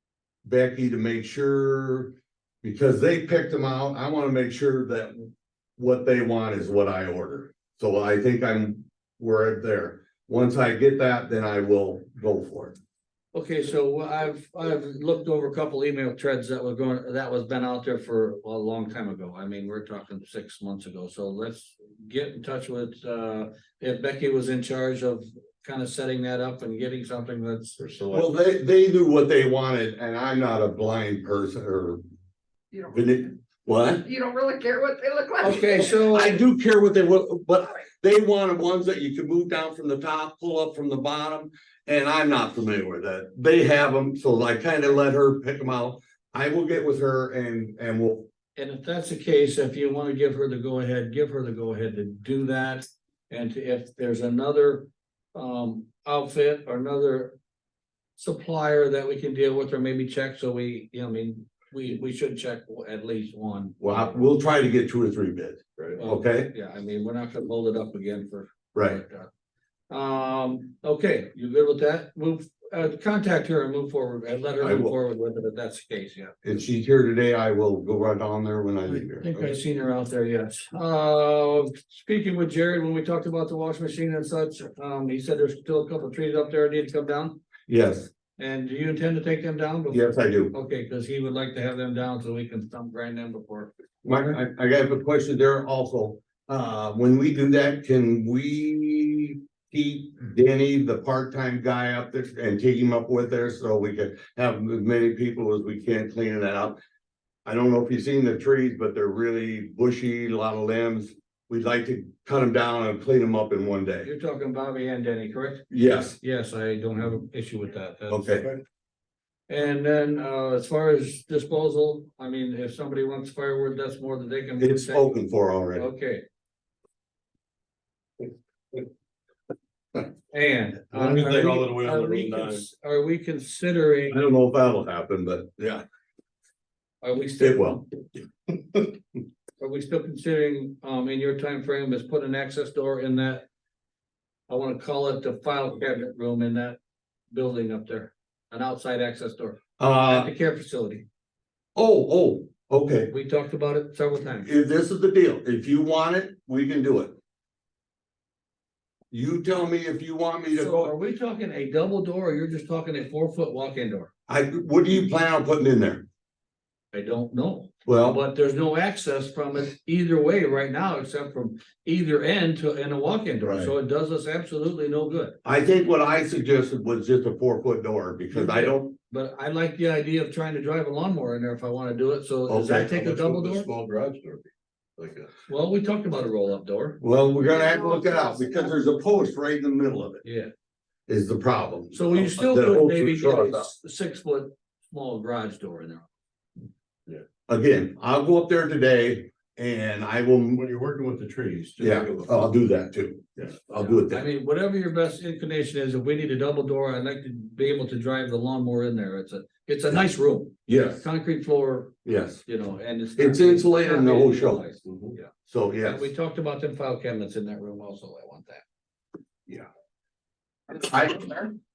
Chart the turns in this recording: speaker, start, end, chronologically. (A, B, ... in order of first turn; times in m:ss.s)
0:00.4-0:12.8 A
0:13.3-0:27.8 B
0:27.8-0:28.3 C
0:28.1-0:32.0 A
0:32.7-0:33.3 D
0:32.9-0:34.0 A
0:34.0-0:36.0 D
0:35.4-0:36.4 B
0:35.9-0:48.3 A
0:48.6-0:57.3 B
0:58.2-1:04.2 B
1:03.8-1:06.5 A
1:06.0-1:09.3 B
1:08.8-1:09.0 A
1:09.9-1:16.4 B
1:14.6-1:15.0 A
1:16.4-1:19.3 A
1:18.9-1:27.4 B
1:27.7-1:28.1 A
1:28.4-1:34.4 B
1:29.9-1:30.5 A
1:34.0-1:46.8 A
1:47.4-1:54.1 A
1:54.0-1:58.5 B
1:55.7-1:56.2 A
1:58.1-1:58.5 A
1:59.5-2:06.2 B
2:04.6-2:05.9 A
2:10.3-2:14.2 B
2:10.9-2:12.6 C
2:14.1-2:15.8 A
2:17.0-2:17.8 B
2:17.4-2:18.2 A
2:19.6-2:23.4 B
2:24.5-2:26.8 B
2:27.3-2:31.0 B
2:29.8-2:30.3 A
2:31.8-2:33.1 A
2:33.1-2:34.5 B
2:34.4-2:37.2 A
2:39.1-2:40.9 A
2:40.5-2:44.1 B
2:44.3-2:46.0 A
2:46.9-2:55.4 B
2:47.8-2:48.2 A
2:53.4-2:53.7 A
2:55.4-2:58.9 A
2:58.3-3:03.7 B
3:02.5-3:03.0 A
3:02.7-3:05.3 C
3:05.5-3:07.0 B
3:07.0-3:10.2 A
3:07.4-3:08.8 D
3:10.2-3:10.5 B
3:11.1-3:13.7 A
3:11.9-3:16.1 B
3:17.5-3:20.6 A
3:20.5-3:22.4 C
3:21.8-3:24.2 A
3:23.7-3:35.3 B
3:30.7-3:31.0 A
3:32.0-3:32.4 A
3:33.2-3:34.6 A
3:34.8-3:35.2 C
3:35.5-3:36.1 A
3:35.8-3:38.6 B
3:40.8-3:41.5 A
3:41.2-3:41.5 D